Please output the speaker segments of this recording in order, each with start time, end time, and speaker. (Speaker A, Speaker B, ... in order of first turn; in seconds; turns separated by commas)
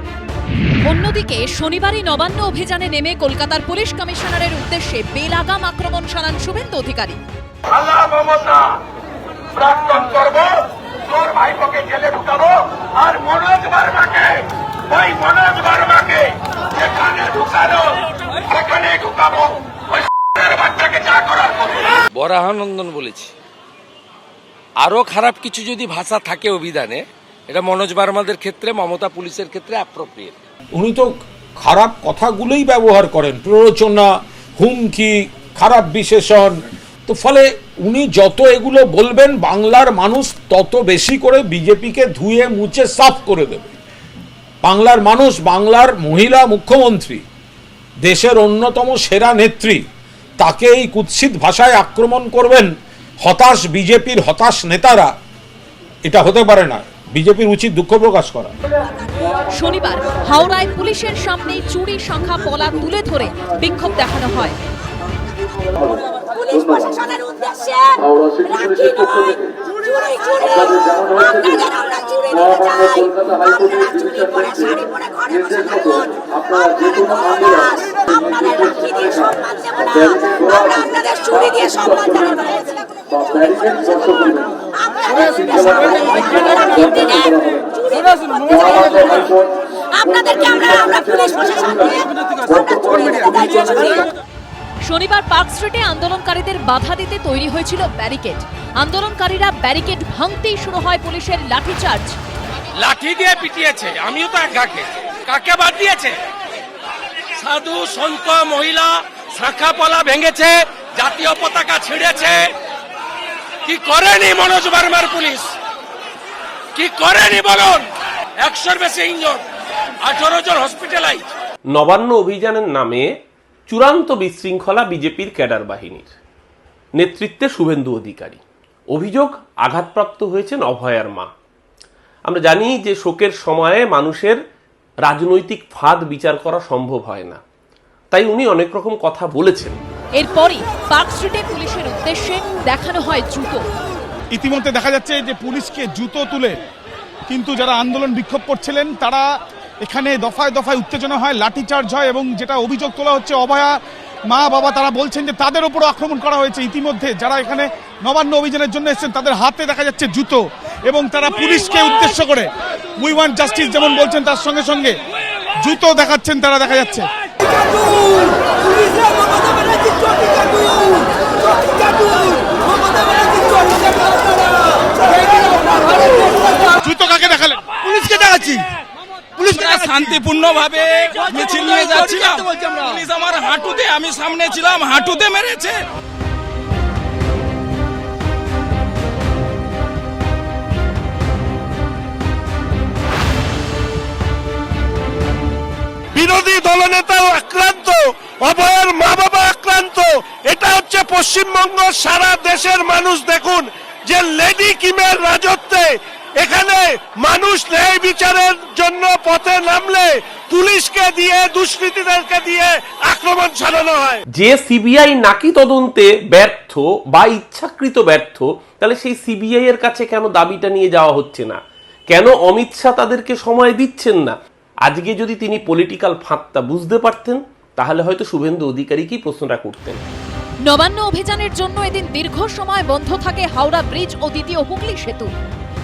Speaker A: 0.8-7.2, Speaker B: 7.7-8.8, Speaker B: 9.6-10.6, Speaker B: 11.1-19.6, Speaker B: 20.3-22.0, Speaker C: 22.1-23.3, Speaker C: 24.8-30.3, Speaker D: 30.7-36.6, Speaker D: 37.1-43.7, Speaker D: 44.6-47.2, Speaker D: 48.0-49.8, Speaker D: 50.4-52.7, Speaker D: 53.2-55.1, Speaker D: 56.0-58.5, Speaker A: 59.5-64.6, Speaker E: 65.8-67.1, Speaker E: 68.0-69.5, Speaker E: 70.4-71.7, Speaker E: 72.3-84.5, Speaker E: 85.1-87.5, Speaker F: 85.6-87.7, Speaker E: 88.3-89.5, Speaker F: 90.0-91.7, Speaker E: 90.1-94.1, Speaker A: 94.8-102.2, Speaker C: 102.8-106.2, Speaker G: 102.9-104.1, Speaker G: 105.3-106.0, Speaker G: 107.4-108.3, Speaker C: 107.4-112.5, Speaker G: 109.2-110.5, Speaker G: 111.1-111.5, Speaker C: 113.7-115.5, Speaker G: 113.8-114.3, Speaker C: 116.8-117.9, Speaker C: 118.4-119.4, Speaker C: 120.0-121.2, Speaker G: 120.1-120.3, Speaker H: 121.7-123.1, Speaker H: 123.7-126.1, Speaker H: 127.0-131.3, Speaker H: 132.3-134.4, Speaker H: 135.1-137.4, Speaker H: 138.1-139.8, Speaker A: 140.2-143.6, Speaker F: 144.3-146.6, Speaker F: 147.3-165.0, Speaker F: 165.6-167.1, Speaker F: 176.8-178.6, Speaker G: 179.4-185.8, Speaker F: 179.4-180.4, Speaker F: 181.3-182.3, Speaker B: 196.1-214.2, Speaker H: 214.3-221.6, Speaker H: 222.1-230.0, Speaker A: 230.7-235.3